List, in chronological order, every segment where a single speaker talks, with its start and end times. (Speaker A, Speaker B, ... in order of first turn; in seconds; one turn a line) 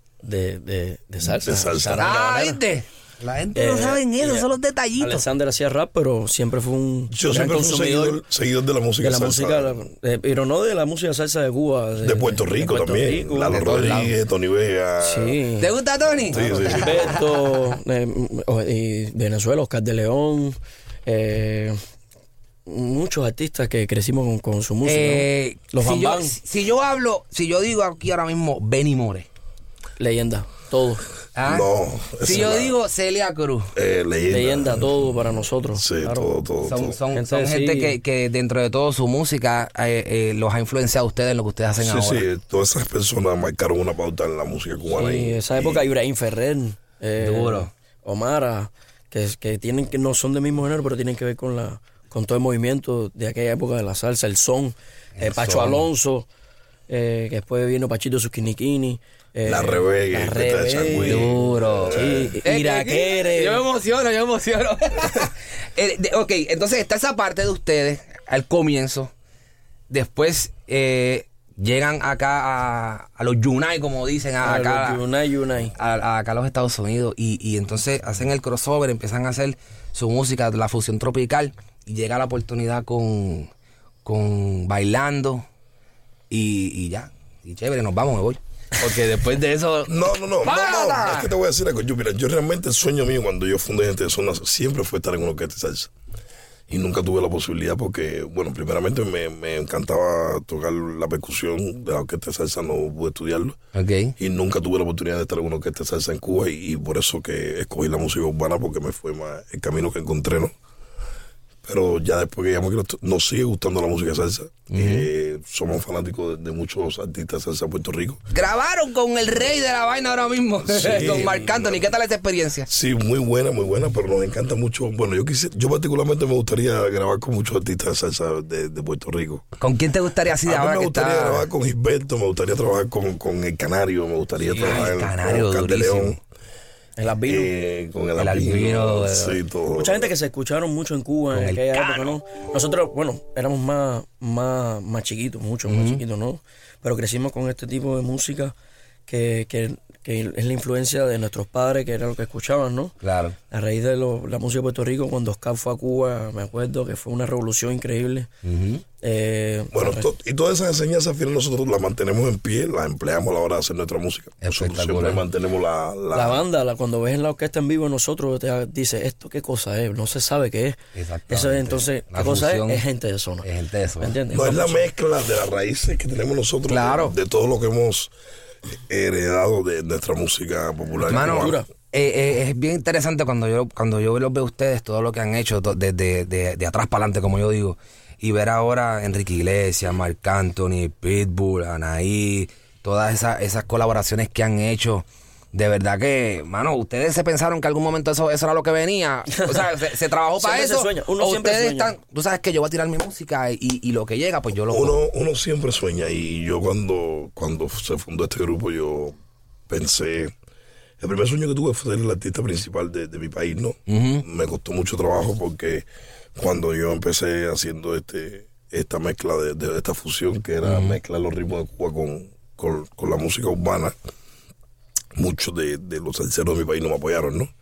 Speaker A: 0.2-2.6
Speaker B: 1.4-2.1
Speaker C: 2.0-5.2
Speaker A: 3.5-4.5
Speaker A: 5.0-8.2
Speaker B: 7.1-9.8
Speaker A: 9.0-13.9
Speaker B: 12.0-15.4
Speaker C: 13.5-14.1
Speaker A: 15.0-15.7
Speaker C: 15.6-17.0
Speaker B: 16.3-17.2
Speaker A: 16.3-21.8
Speaker A: 22.6-26.4
Speaker C: 24.8-29.3
Speaker A: 30.0-31.0
Speaker C: 31.3-33.7
Speaker B: 31.4-32.8
Speaker B: 33.7-35.0
Speaker A: 34.3-36.3
Speaker B: 35.7-37.0
Speaker C: 36.6-42.3
Speaker A: 37.1-38.0
Speaker B: 41.8-45.9
Speaker A: 44.9-56.3
Speaker C: 47.2-47.7
Speaker C: 55.2-55.9
Speaker A: 56.9-63.6
Speaker B: 59.5-62.3
Speaker C: 61.0-69.1
Speaker C: 69.9-75.0
Speaker A: 74.4-75.7
Speaker C: 75.7-83.5
Speaker C: 84.0-85.4
Speaker C: 86.3-91.3
Speaker B: 89.9-95.9
Speaker B: 96.7-103.6
Speaker C: 103.7-104.1
Speaker B: 104.2-110.5
Speaker B: 111.6-118.2
Speaker C: 114.7-115.1
Speaker C: 118.3-122.7
Speaker B: 120.7-121.9
Speaker B: 122.7-129.4
Speaker C: 129.6-131.5
Speaker B: 130.4-136.2
Speaker A: 134.5-134.9
Speaker C: 134.6-136.2
Speaker A: 136.9-137.5
Speaker B: 137.2-140.1
Speaker C: 138.2-139.4
Speaker A: 139.7-148.5
Speaker C: 141.3-142.2
Speaker C: 145.7-146.0
Speaker A: 149.1-152.9
Speaker C: 153.0-153.3
Speaker A: 153.5-158.3
Speaker C: 158.4-158.8
Speaker A: 159.0-160.1
Speaker B: 159.7-166.4
Speaker C: 164.4-165.2
Speaker A: 166.1-170.8
Speaker C: 170.9-172.8
Speaker A: 171.3-173.5
Speaker C: 173.4-174.2
Speaker A: 174.0-174.8
Speaker B: 174.3-178.1
Speaker C: 176.7-177.1
Speaker B: 178.7-181.6
Speaker C: 181.1-205.0
Speaker A: 181.1-181.7
Speaker A: 199.3-199.7
Speaker A: 200.4-201.9
Speaker B: 204.7-209.1
Speaker B: 209.7-210.3
Speaker B: 211.0-215.8
Speaker C: 213.9-214.2
Speaker B: 216.4-223.9
Speaker C: 220.6-221.0
Speaker B: 225.2-227.5